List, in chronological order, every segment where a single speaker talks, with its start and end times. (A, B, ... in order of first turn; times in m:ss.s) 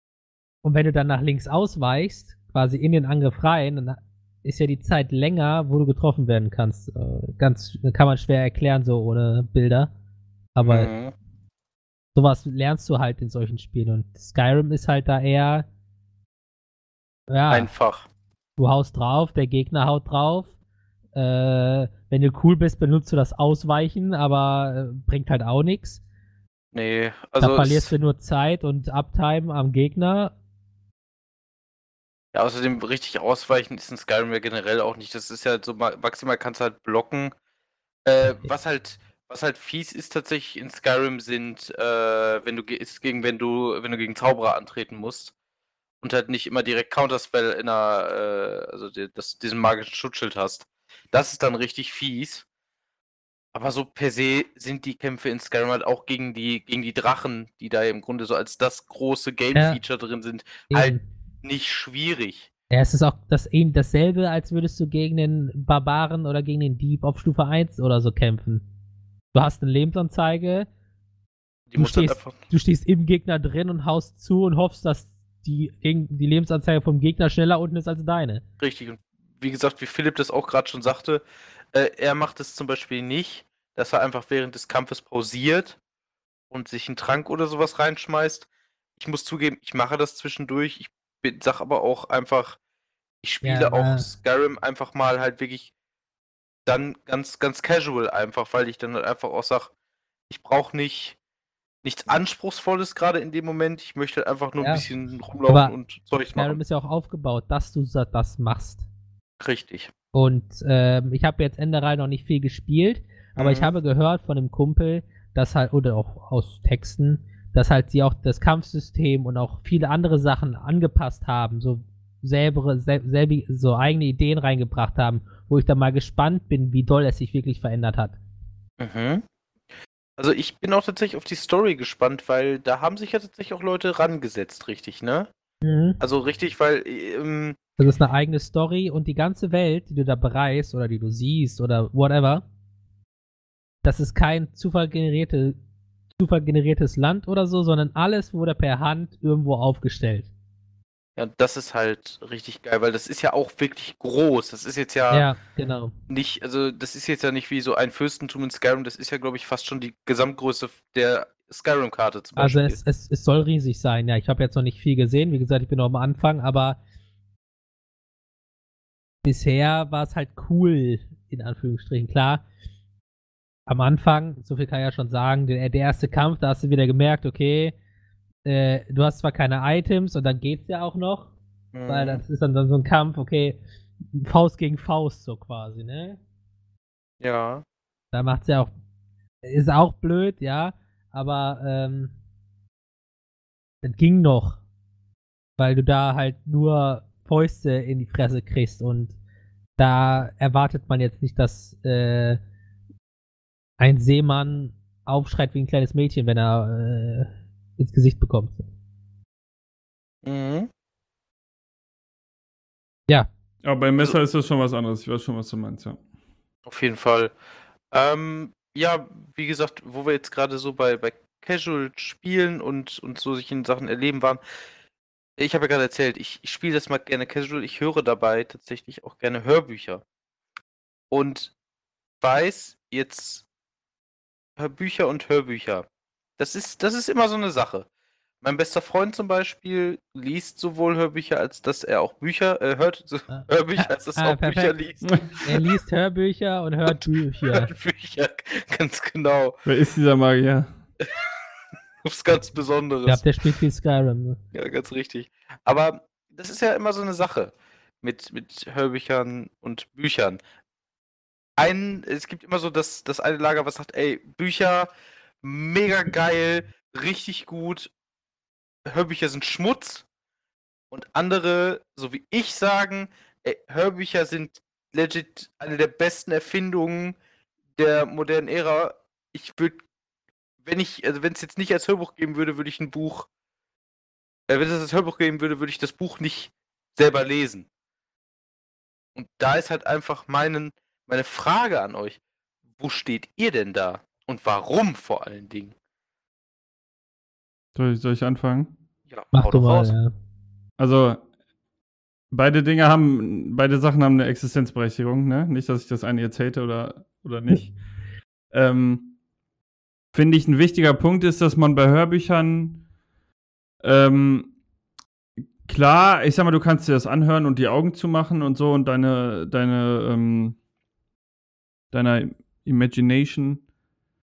0:00.6-0:09.9 A
0:10.6-0:10.9 A
0:10.6-0:11.1 B
0:12.1-0:15.7 A
0:17.3-0:17.7 A
0:17.5-0:18.1 B
0:18.6-0:20.5 A
0:21.1-0:26.0 A
0:26.7-0:27.9 B
0:27.4-0:30.3 A
0:32.3-0:37.3 B
0:38.0-0:45.3 B
0:46.0-0:52.4 B
0:53.5-1:02.5 B
0:59.5-0:59.8 A
1:00.7-1:01.0 A
1:02.7-1:08.6 A
1:09.3-1:10.7 A
1:11.7-1:12.4 B
1:11.8-1:18.4 A
1:18.6-1:21.2 B
1:21.7-1:25.8 B
1:26.5-1:32.6 B
1:33.2-1:35.7 B
1:33.4-1:34.1 A
1:36.6-1:39.7 B
1:40.3-1:41.2 B
1:41.8-1:46.6 B
1:44.6-1:44.8 A
1:45.5-1:45.7 A
1:46.3-1:48.9 A
1:49.4-1:49.9 B
1:50.1-2:08.2 A
1:53.4-1:53.7 B
2:08.8-2:09.2 B
2:10.2-2:15.3 B
2:15.6-2:16.0 A
2:16.0-2:17.6 B
2:17.8-2:22.4 A
2:23.8-2:25.6 A
2:26.2-2:30.3 A
2:31.2-2:35.3 B
2:35.1-2:35.9 A
2:36.1-2:42.8 B
2:42.4-2:46.8 A
2:49.2-2:52.4 A
2:53.7-2:57.7 A
2:58.4-3:01.3 A
3:01.7-3:02.2 B
3:01.9-3:03.6 A
3:04.1-3:06.2 A
3:07.2-3:07.6 B
3:08.1-3:08.7 A
3:09.4-3:12.1 A
3:13.8-3:14.6 A
3:15.6-3:19.1 A
3:19.8-3:22.4 A
3:23.8-3:28.6 A
3:30.2-3:30.7 B
3:33.6-3:36.0 C
3:36.6-3:37.3 B
3:37.9-3:44.4 B
3:45.4-3:50.0 B
3:51.1-3:51.5 B
3:52.2-3:53.4 B
3:54.6-3:55.8 B
3:56.4-3:57.9 B
3:58.4-4:05.4 B
4:03.3-4:04.8 A
4:05.4-4:07.7 A
4:06.9-4:09.6 B
4:09.6-4:10.7 C
4:12.0-4:13.2 B
4:13.1-4:14.4 A
4:14.5-4:20.4 B
4:21.6-4:24.9 B
4:25.4-4:27.9 B
4:28.8-4:30.0 B
4:30.9-4:37.2 B
4:37.8-4:39.8 B
4:40.6-4:43.3 B
4:44.5-4:47.7 B
4:49.1-4:52.2 B
4:52.8-4:55.7 B
4:57.7-4:58.7 C
4:59.1-4:59.9 B
4:59.3-5:00.1 A
5:00.8-5:01.2 C
5:02.3-5:07.7 C
5:08.5-5:09.1 C
5:10.1-5:12.8 C
5:13.8-5:14.5 C
5:15.6-5:20.6 C
5:21.9-5:23.6 C